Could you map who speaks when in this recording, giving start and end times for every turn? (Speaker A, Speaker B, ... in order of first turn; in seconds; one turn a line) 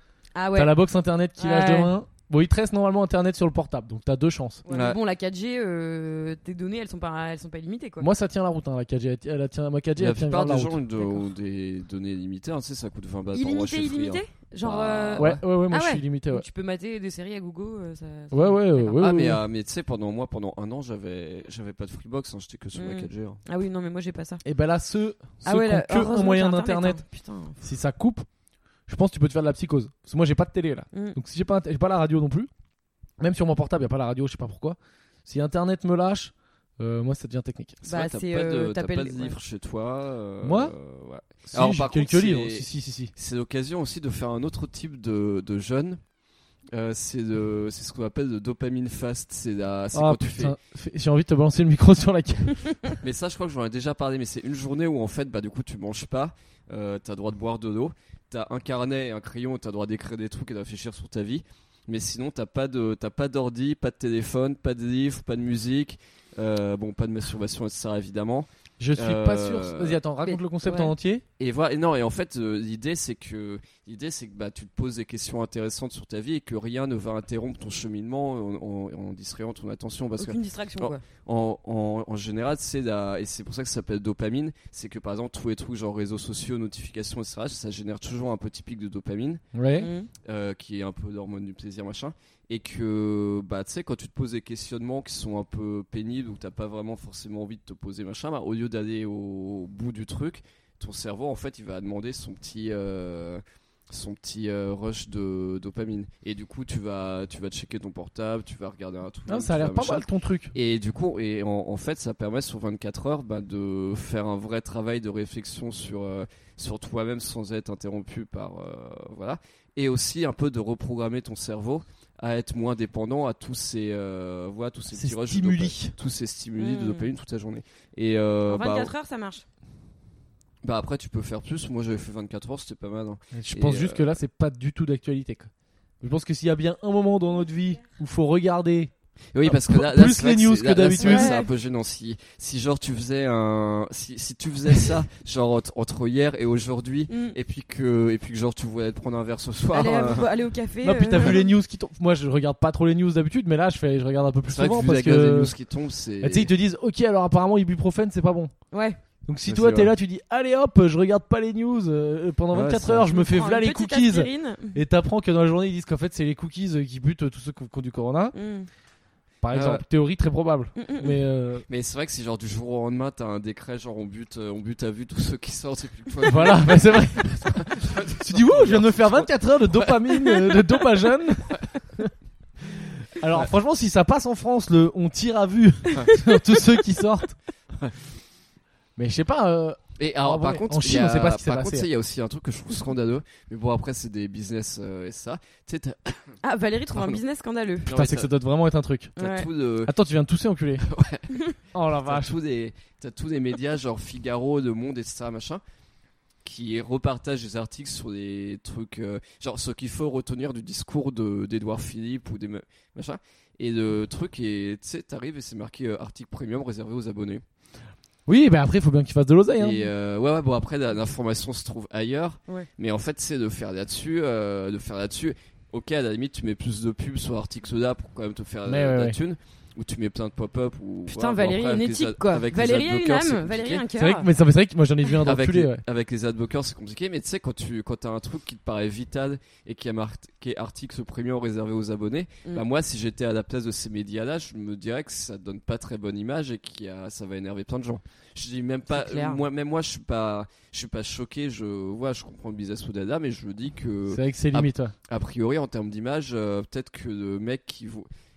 Speaker A: 0.3-0.7
Speaker B: 0.5-4.6
Speaker A: 1.4-1.9
Speaker A: 4.7-8.1
Speaker C: 4.7-5.0
Speaker B: 8.0-10.8
Speaker C: 10.0-15.4
Speaker A: 13.3-19.1
Speaker B: 15.2-16.4
Speaker B: 18.3-19.4
Speaker C: 19.0-23.4
Speaker A: 22.7-24.4
Speaker B: 24.4-27.0
Speaker A: 25.4-27.6
Speaker B: 27.6-28.2
Speaker B: 28.9-32.5
Speaker B: 33.2-37.8
Speaker C: 37.8-46.0
Speaker A: 37.8-39.4
Speaker B: 40.4-40.7
Speaker B: 41.5-43.1
Speaker C: 46.7-50.6
Speaker B: 49.9-52.9
Speaker C: 53.0-70.0
Speaker B: 68.8-71.2
Speaker A: 70.2-70.9
Speaker C: 71.4-89.4
Speaker A: 80.2-81.0
Speaker B: 89.5-89.9
Speaker A: 89.8-90.1
Speaker C: 90.2-128.9
Speaker B: 109.3-110.5
Speaker B: 124.9-126.0
Speaker A: 126.6-127.1
Speaker A: 128.5-129.4
Speaker C: 130.6-134.1
Speaker B: 133.3-135.5
Speaker B: 136.0-138.9
Speaker C: 139.3-150.3
Speaker B: 139.4-141.3
Speaker A: 141.0-141.5
Speaker A: 147.1-147.3
Speaker A: 149.7-151.5
Speaker B: 150.8-155.5
Speaker C: 154.5-156.5
Speaker B: 156.2-158.5
Speaker A: 158.7-159.0
Speaker B: 159.2-168.3
Speaker C: 159.5-159.9
Speaker C: 162.5-163.1
Speaker A: 163.1-164.8
Speaker A: 168.3-168.7
Speaker B: 169.4-171.6
Speaker C: 169.5-169.8
Speaker A: 170.8-171.2
Speaker C: 171.7-180.0
Speaker B: 176.2-182.1
Speaker B: 182.6-187.3
Speaker B: 189.0-191.9
Speaker C: 190.0-196.4
Speaker A: 196.4-197.9
Speaker C: 196.9-197.2
Speaker C: 197.8-198.3
Speaker B: 197.9-199.2
Speaker C: 199.2-199.9
Speaker A: 199.2-199.5
Speaker B: 199.8-200.8
Speaker C: 200.8-201.4
Speaker B: 201.7-202.3
Speaker C: 202.0-205.6
Speaker C: 206.4-217.4
Speaker B: 218.3-219.9
Speaker C: 219.6-233.8
Speaker B: 228.7-229.2
Speaker A: 231.1-234.3
Speaker B: 233.9-235.8
Speaker C: 235.2-258.1
Speaker A: 248.9-249.4
Speaker B: 254.1-254.9